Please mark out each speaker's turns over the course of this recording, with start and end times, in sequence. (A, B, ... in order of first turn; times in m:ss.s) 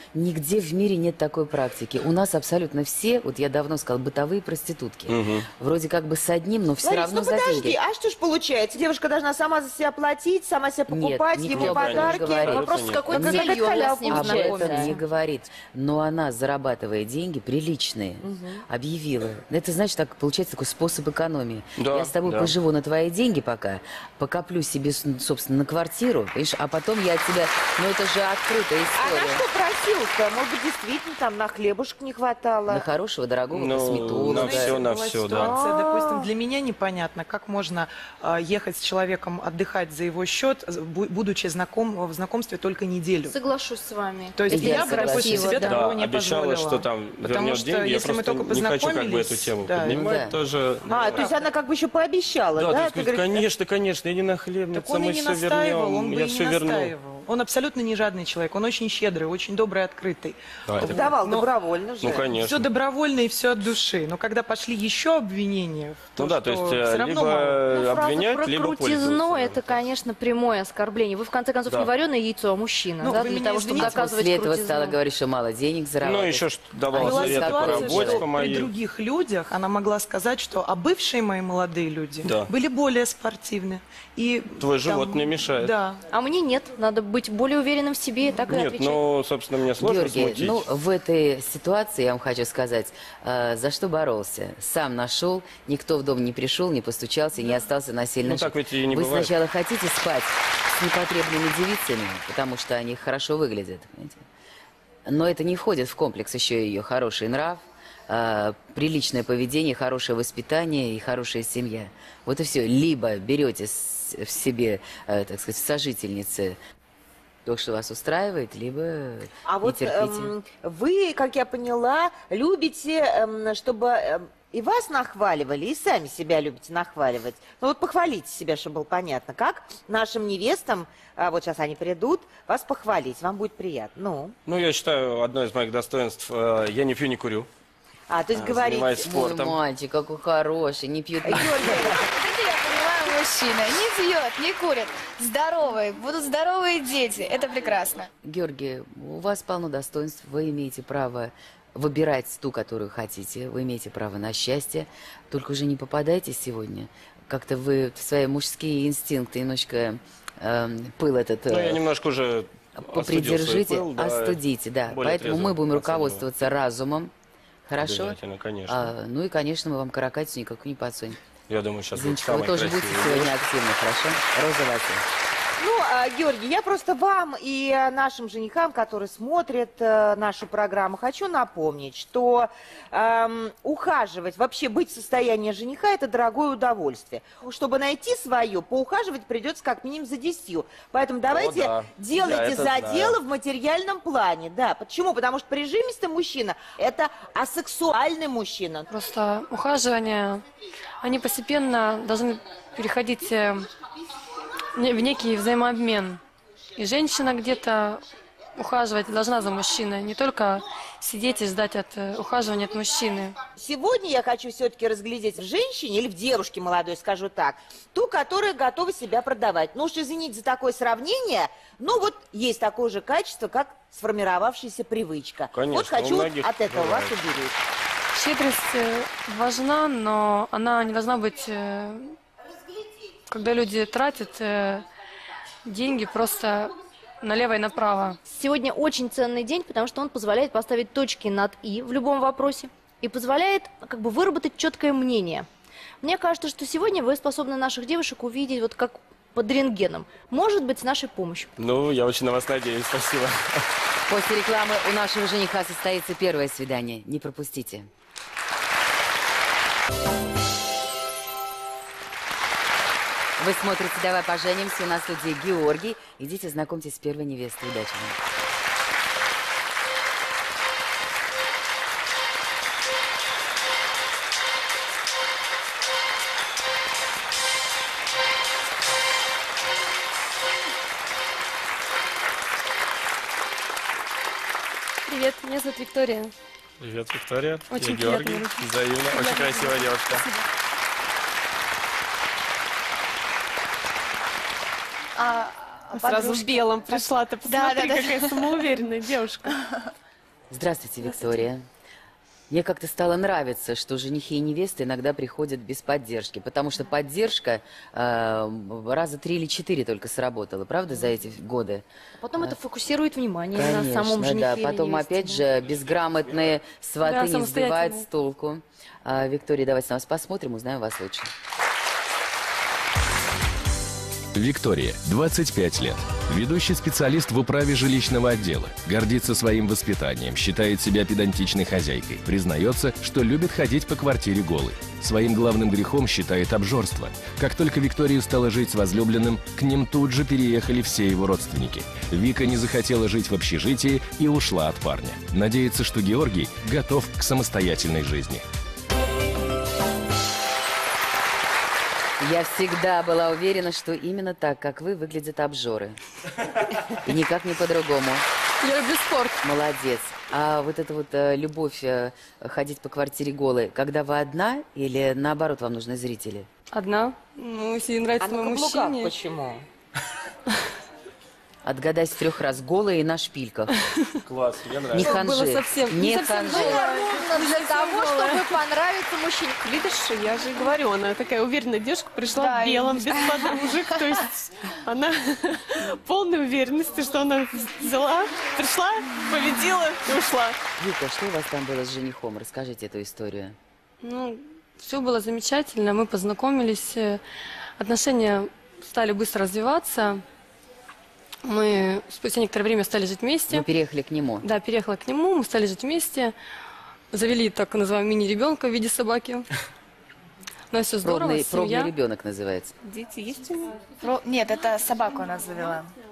0:00.1-0:07.8 A
0:05.1-0:05.5 B
0:06.8-0:14.9 C
0:10.9-0:29.4 A
0:11.5-0:13.2 B
0:12.5-0:15.0 D
0:21.8-0:22.5 B
0:29.0-0:32.8 C
0:32.7-0:34.8 A
0:33.5-0:35.6 B
0:34.1-0:43.4 E
0:35.4-0:36.2 C
0:43.3-0:45.8 D
0:44.4-0:50.0 E
0:44.5-0:45.6 A
0:45.6-0:51.3 B
0:49.9-0:50.4 A
0:50.9-0:53.4 C
0:50.9-0:51.4 E
0:52.6-0:56.9 B
0:54.7-1:01.5 E
1:00.7-1:01.0 B
1:00.8-1:02.3 C
1:02.0-1:02.7 B
1:02.2-1:07.6 E
1:06.2-1:09.6 B
1:07.7-1:15.0 D
1:13.0-1:14.1 E
1:13.7-1:18.3 A
1:16.0-1:18.7 B
1:17.0-1:26.0 E
1:22.2-1:22.5 B
1:24.6-1:25.7 B
1:26.1-1:29.0 D
1:28.5-1:30.6 B
1:29.8-1:44.2 A
1:38.2-1:39.3 B
1:45.1-1:56.6 A
1:57.4-2:00.3 A
1:59.5-2:14.4 C
2:14.5-2:17.5 B
2:18.1-2:19.0 C
2:18.3-2:19.6 B
2:19.0-2:22.0 A
2:21.2-2:22.1 C
2:22.0-2:28.1 F
2:28.2-2:41.8 A
2:41.5-2:46.3 B
2:42.8-2:47.1 A
2:47.7-2:48.2 A
2:47.8-2:48.9 B
2:48.7-2:51.2 A
2:51.5-2:53.4 B
2:51.9-2:55.0 A
2:55.6-3:18.9 C
3:11.3-3:13.2 B
3:18.9-3:20.4 G
3:21.0-3:23.7 G
3:24.8-3:26.2 G
3:26.8-3:28.0 G
3:28.6-3:33.4 G
3:33.6-3:47.6 C
3:45.5-3:47.2 B
3:48.2-3:52.2 G
3:53.3-3:54.8 G
3:55.6-3:58.2 G
3:58.3-4:05.5 D
4:06.0-4:11.5 D
4:11.6-4:13.6 B
4:14.1-4:17.9 A
4:23.4-4:28.2 A
4:45.1-4:46.3 G
4:46.8-4:50.2 B
4:47.7-4:50.4 G
4:55.2-4:58.7 F
4:55.9-4:59.5 H
5:00.5-5:01.6 A
5:02.5-5:12.6 A
5:12.2-5:15.4 D
5:13.5-5:21.3 A
5:17.0-5:18.0 G
5:24.4-5:48.4 I
5:52.2-5:56.0 A
5:57.0-5:58.3 A
5:58.6-5:59.4 G
5:59.4-6:06.5 A
6:06.7-6:09.2 G
6:08.2-6:09.6 C
6:11.6-6:13.7 A
6:14.3-6:15.3 B
6:14.9-6:16.9 A
6:15.0-6:18.4 G
6:16.4-6:19.6 D
6:19.6-6:30.6 H
6:22.3-6:24.2 F
6:30.8-6:33.6 A
6:34.0-6:37.2 G
6:37.8-6:40.2 G
6:41.4-6:43.7 G
6:43.5-6:44.5 A
6:44.4-6:46.3 G
6:47.1-6:49.5 G
6:50.7-6:51.9 G
6:51.0-6:52.7 A
6:52.8-6:53.7 H
6:54.0-6:55.8 F